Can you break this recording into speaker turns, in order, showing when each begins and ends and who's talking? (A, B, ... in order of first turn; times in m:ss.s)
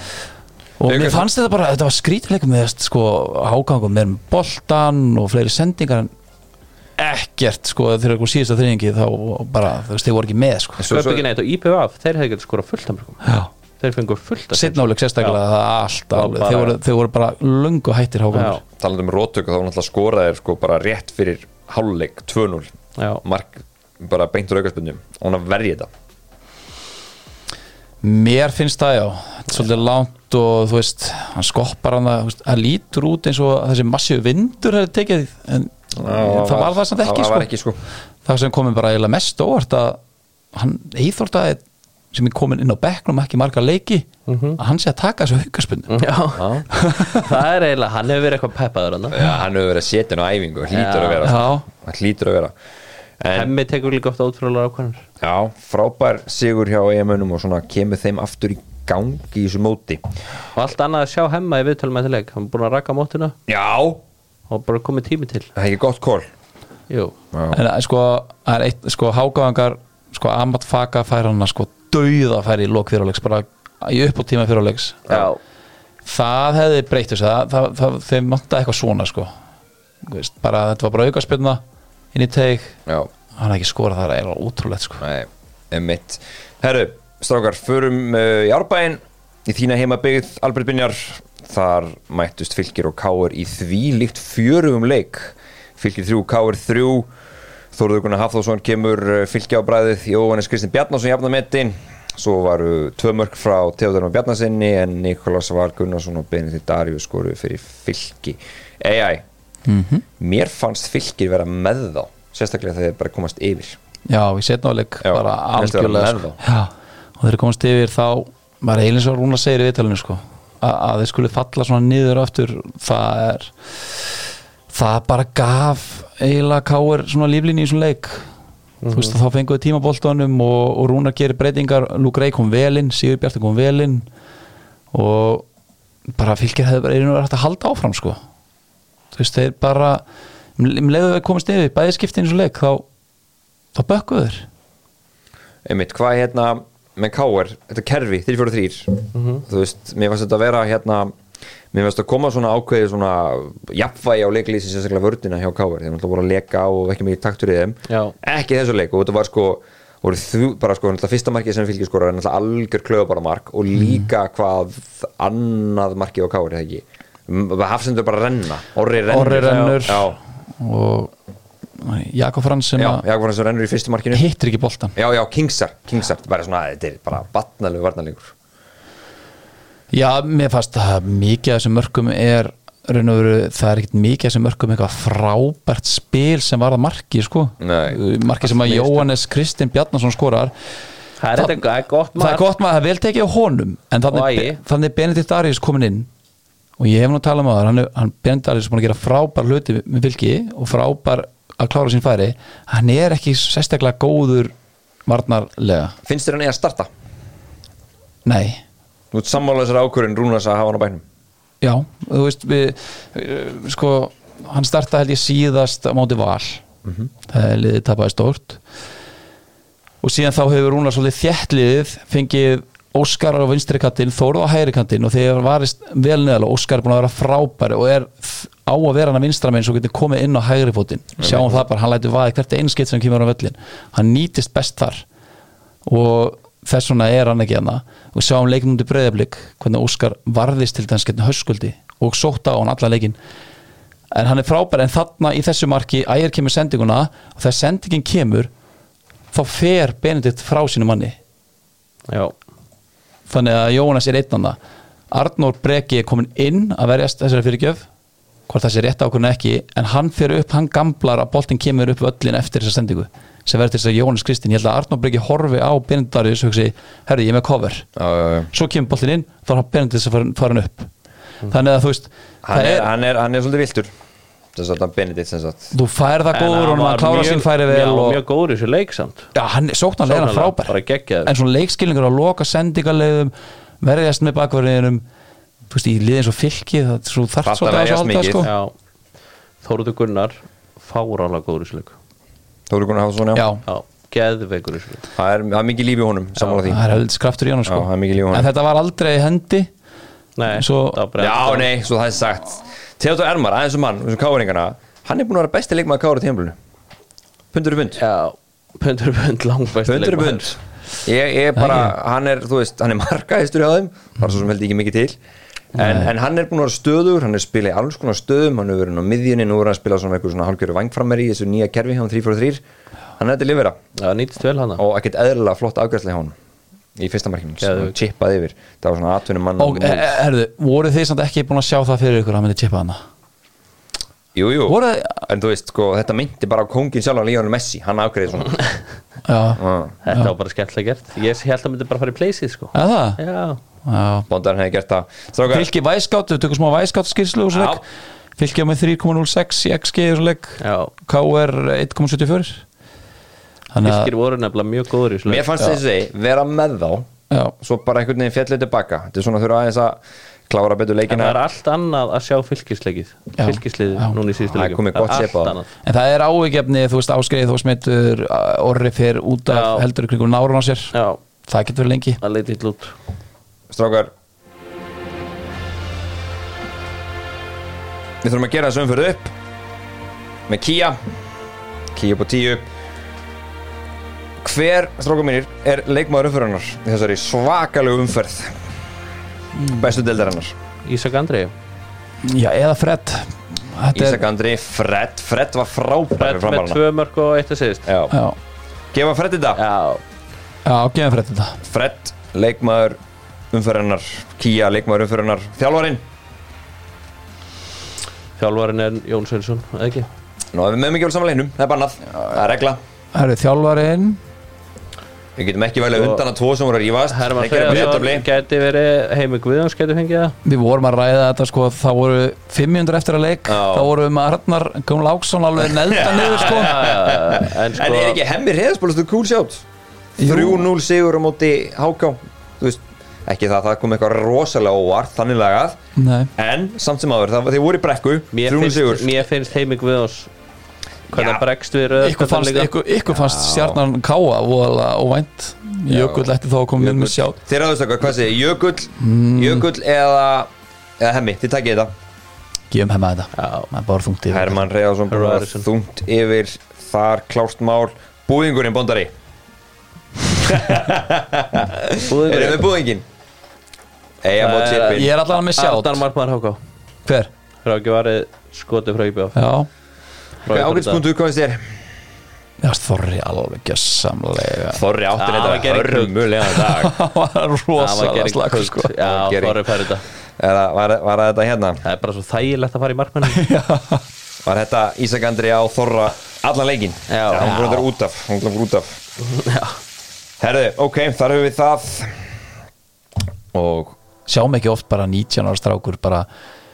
0:00.8-0:06.1 A
0:00.8-0:01.2 B
0:07.0-0:10.9 A
0:10.8-0:11.3 B
0:10.9-0:13.2 C
0:13.2-0:13.5 A
0:13.8-0:15.4 C
0:14.5-0:18.6 A
0:16.1-0:16.8 C
0:18.3-0:18.6 C
0:18.8-0:22.7 B
0:23.0-0:23.2 C
0:23.2-0:25.9 B
0:28.0-0:37.5 A
0:35.9-0:37.8 B
0:38.2-0:40.0 A
0:40.5-0:41.6 A
0:42.1-0:46.0 A
0:44.3-0:44.6 C
0:45.9-0:49.2 C
0:46.4-0:46.6 B
0:46.7-0:47.3 A
0:49.1-0:52.5 B
0:50.7-0:51.3 C
0:51.2-0:51.6 A
0:53.2-0:53.5 B
0:53.3-0:55.0 C
0:55.2-1:00.0 B
1:00.5-1:03.3 C
1:03.5-1:04.0 B
1:04.5-1:05.5 C
1:05.6-1:06.2 B
1:06.9-1:07.1 C
1:07.3-1:07.6 B
1:07.5-1:15.0 A
1:15.1-1:15.4 C
1:16.0-1:19.3 A
1:20.0-1:21.6 A
1:22.1-1:22.8 A
1:23.3-1:25.0 A
1:25.0-1:37.1 B
1:37.7-1:49.2 B
1:49.6-1:50.0 A
1:50.2-1:53.8 B
1:54.1-2:04.0 A
1:55.0-1:56.4 B
2:04.7-2:08.3 A
2:08.8-2:09.2 C
2:08.9-2:14.0 A
2:14.9-2:15.4 A
2:16.1-2:18.2 A
2:19.1-2:20.0 A
2:20.6-2:22.8 A
2:23.7-2:24.4 A
2:25.6-2:31.1 B
2:29.1-2:29.4 C
2:31.7-2:50.2 B
2:37.9-2:38.1 C
2:49.1-2:51.1 A
2:51.8-2:53.0 A
2:52.8-2:54.2 B
2:54.1-2:54.9 A
2:54.9-2:58.3 B
2:59.9-3:10.5 A
3:07.6-3:08.0 B
3:08.5-3:09.1 C
3:11.2-3:12.5 C
3:11.4-3:11.6 A
3:12.2-3:16.1 A
3:14.1-3:14.6 C
3:16.8-3:24.5 A
3:25.0-3:25.9 A
3:26.0-3:26.9 B
3:28.2-3:28.6 A
3:29.1-3:31.0 B
3:31.6-3:36.6 A
3:37.3-3:38.6 A
3:40.0-3:55.0 A
3:51.2-3:51.6 B
3:55.8-4:03.2 A
4:04.1-4:08.5 A
4:09.3-4:11.2 A
4:12.1-4:12.3 C
4:13.3-4:14.6 A
4:15.1-4:17.9 A
4:18.5-4:27.9 A
4:28.0-4:28.5 B
4:28.5-4:30.9 A
4:31.5-4:32.9 A
4:32.4-4:33.9 B
4:34.5-4:35.7 B
4:35.7-4:38.2 A
4:36.3-4:39.3 C
4:39.3-4:45.0 A
4:40.0-4:41.3 C
4:45.7-4:48.5 A
4:47.4-4:48.5 B
4:48.4-4:48.7 C
4:49.6-4:51.9 C
4:52.7-4:53.5 B
4:53.3-4:53.6 A
4:53.6-4:55.0 C
4:55.2-4:56.9 B
4:56.4-4:56.6 C
4:56.7-4:59.7 A
4:57.7-4:58.5 B
5:00.4-5:01.7 C
5:00.5-5:01.0 A
5:01.2-5:06.6 B
5:07.5-5:08.0 B
5:08.0-5:10.6 C
5:09.8-5:15.2 B
5:11.6-5:11.9 A
5:15.7-5:22.6 B
5:15.8-5:16.1 A
5:23.2-5:23.8 B
5:24.0-5:24.8 C
5:24.8-5:26.3 B
5:27.0-5:30.1 B
5:27.6-5:27.9 C
5:29.6-5:33.0 A
5:34.3-5:38.6 B
5:34.7-5:35.3 A
5:39.2-5:40.3 A
5:39.6-5:40.0 B
5:40.0-5:43.6 C
5:42.7-5:43.2 A
5:43.8-5:44.3 A
5:44.3-5:45.7 B
5:45.5-5:47.8 A
5:47.5-5:47.8 B
5:48.4-5:52.6 A
5:50.6-5:50.9 C
5:53.7-5:54.1 A
5:53.8-5:55.5 C
5:55.2-5:57.1 B
5:57.3-5:57.5 A
5:57.6-6:01.4 B
6:01.1-6:05.7 C
6:03.4-6:04.1 A
6:04.5-6:05.6 B
6:05.8-6:10.9 A
6:09.5-6:09.8 C
6:10.9-6:11.2 C
6:11.5-6:12.2 A
6:12.2-6:12.9 C
6:13.7-6:14.1 B
6:18.2-6:19.3 B
6:20.5-6:21.0 B
6:21.9-6:22.6 B
6:24.4-6:28.7 B
6:29.7-6:30.5 B
6:30.8-6:31.5 C
6:32.2-6:34.2 A
6:33.9-6:36.8 B
6:36.2-6:37.9 C
6:37.9-6:38.1 B
6:38.1-6:38.4 A
6:38.9-6:39.6 B
6:39.6-6:40.0 C
6:40.6-6:41.6 A
6:41.6-6:43.0 B
6:43.5-6:46.0 B
6:48.4-6:50.1 C
6:50.5-6:52.8 B
6:53.1-6:54.2 A
6:55.4-6:58.3 B
6:55.9-6:56.2 C
6:57.1-7:00.4 C
7:00.4-7:06.8 A
7:03.5-7:03.9 B
7:05.6-7:09.6 B
7:06.2-7:08.2 C
7:10.2-7:10.6 A
7:10.2-7:15.8 B
7:16.0-7:16.3 A
7:16.4-7:19.2 B
7:18.3-7:20.3 C
7:21.1-7:22.7 C
7:21.1-7:21.4 B
7:22.0-7:27.4 A
7:23.2-7:23.8 B
7:25.9-7:26.3 B
7:26.8-7:31.9 B
7:29.0-7:29.6 A
7:32.7-7:34.6 A
7:33.4-7:33.7 C
7:34.3-7:39.1 B
7:35.1-7:35.6 C
7:40.3-7:43.0 B
7:42.0-7:42.7 C
7:44.2-7:45.1 B
7:44.4-7:46.6 C
7:44.9-7:46.0 A
7:47.6-7:49.4 C
7:49.3-7:49.7 A
7:50.4-7:51.0 C
7:50.5-7:51.6 B
7:52.6-7:54.8 A
7:54.7-7:56.9 B
7:55.2-7:56.5 C
7:56.7-7:58.9 A
7:57.8-8:00.0 C
7:59.0-7:59.8 B
8:00.4-8:01.8 B
8:01.8-8:03.4 C
8:03.2-8:04.0 A
8:04.4-8:09.0 B
8:07.1-8:07.8 C
8:09.2-8:09.8 C
8:10.4-8:12.3 B
8:13.5-8:14.0 B
8:14.3-8:16.2 A